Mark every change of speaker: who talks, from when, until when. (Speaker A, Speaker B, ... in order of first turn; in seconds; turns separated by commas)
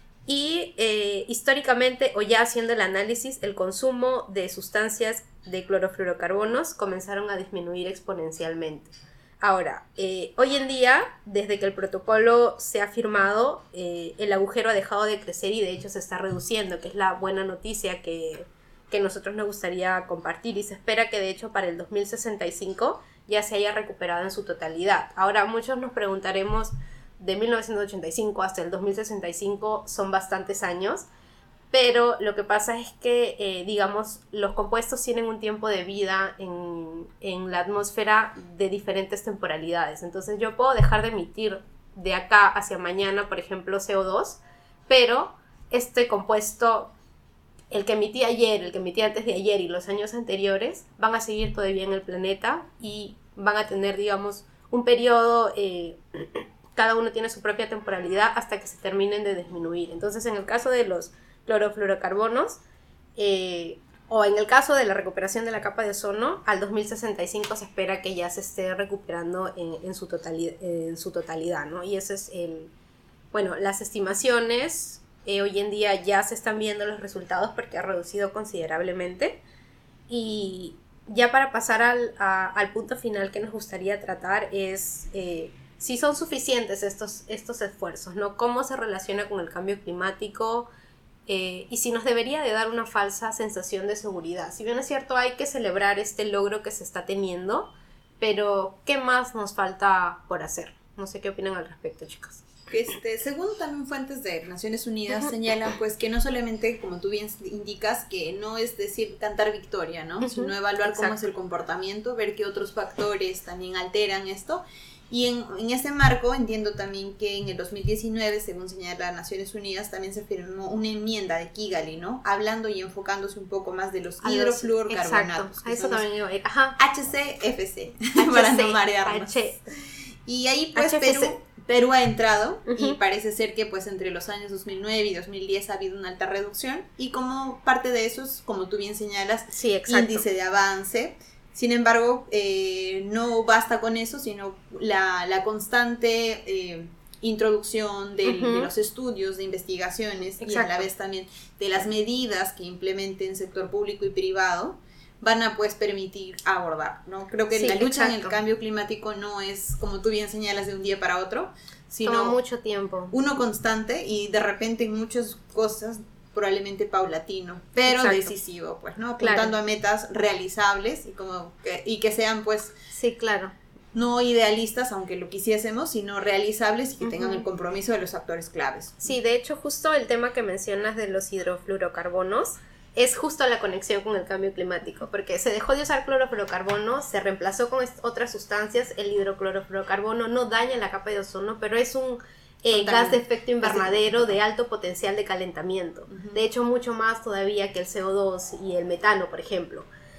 Speaker A: 0.3-31.0, Speaker A: 31.7-46.9, Speaker A: 47.7-62.6, Speaker A: 63.1-72.7, Speaker A: 73.3-79.4, Speaker A: 80.1-90.7, Speaker A: 91.3-102.4, Speaker B: 102.7-126.0, Speaker A: 110.2-111.2, Speaker A: 124.2-126.8, Speaker B: 126.8-129.4, Speaker A: 128.2-129.6, Speaker B: 130.2-162.4, Speaker A: 130.7-131.3, Speaker A: 132.7-133.0, Speaker A: 139.5-140.2, Speaker A: 148.2-148.7, Speaker A: 150.4-150.9, Speaker A: 157.5-158.4, Speaker A: 162.0-163.1, Speaker B: 163.1-172.7, Speaker A: 167.8-168.3, Speaker A: 169.2-169.6, Speaker A: 172.9-173.5, Speaker B: 173.9-179.1, Speaker A: 177.0-177.4, Speaker A: 179.0-199.9, Speaker B: 192.7-194.3, Speaker B: 196.1-196.4